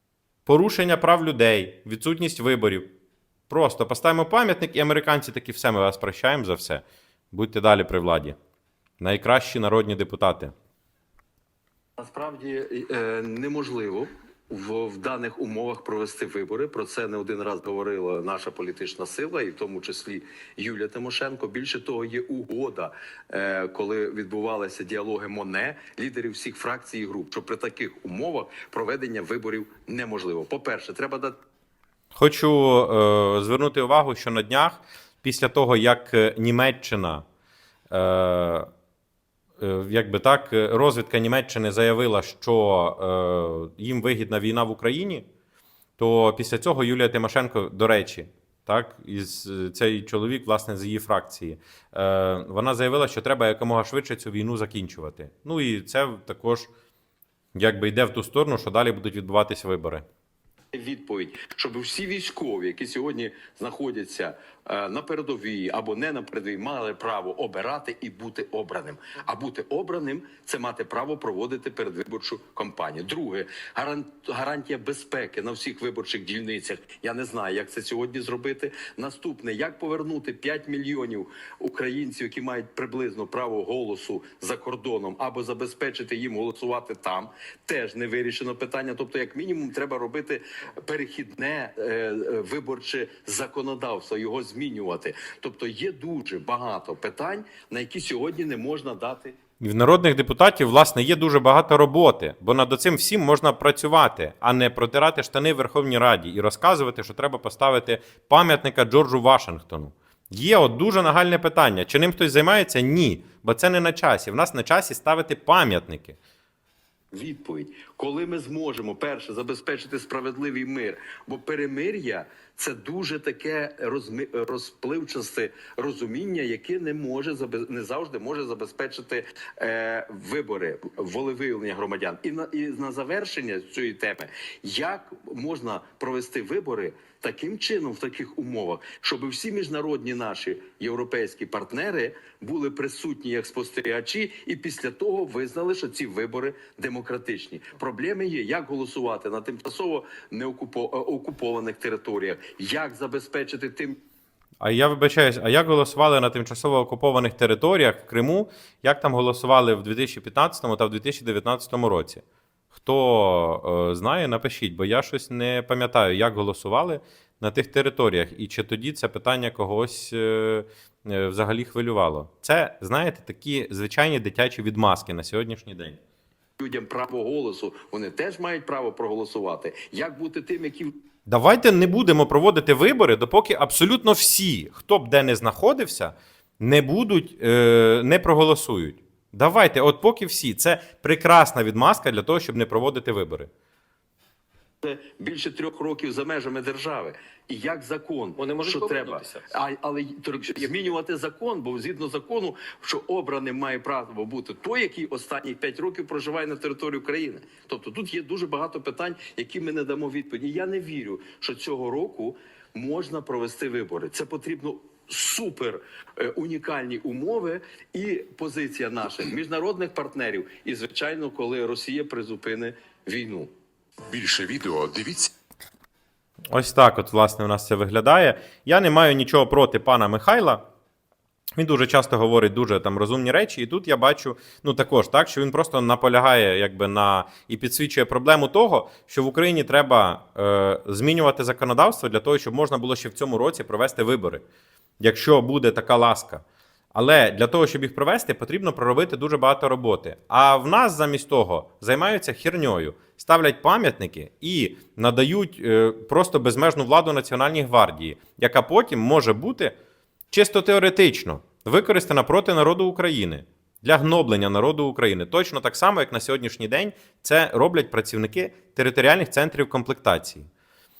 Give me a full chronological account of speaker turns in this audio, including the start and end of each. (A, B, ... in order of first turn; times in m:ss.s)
0:00.5-0:02.9 A
0:03.5-0:08.4 A
0:09.0-0:10.5 A
0:12.0-0:31.4 B
0:32.1-0:37.2 A
0:37.9-0:38.7 A
0:39.6-0:45.2 A
0:46.0-0:56.7 A
0:57.5-1:00.0 A
1:00.7-1:39.4 B
1:39.6-1:56.2 A
1:57.1-2:34.0 B
2:34.6-2:56.0 A
2:56.6-3:00.9 B
3:01.3-3:13.5 A
3:14.8-3:43.5 B
3:18.4-3:19.5 C
3:20.5-3:20.8 C
3:44.1-3:45.3 C
3:46.5-3:50.6 A
3:51.6-4:04.4 A
4:05.0-4:19.7 A
4:20.3-4:30.5 A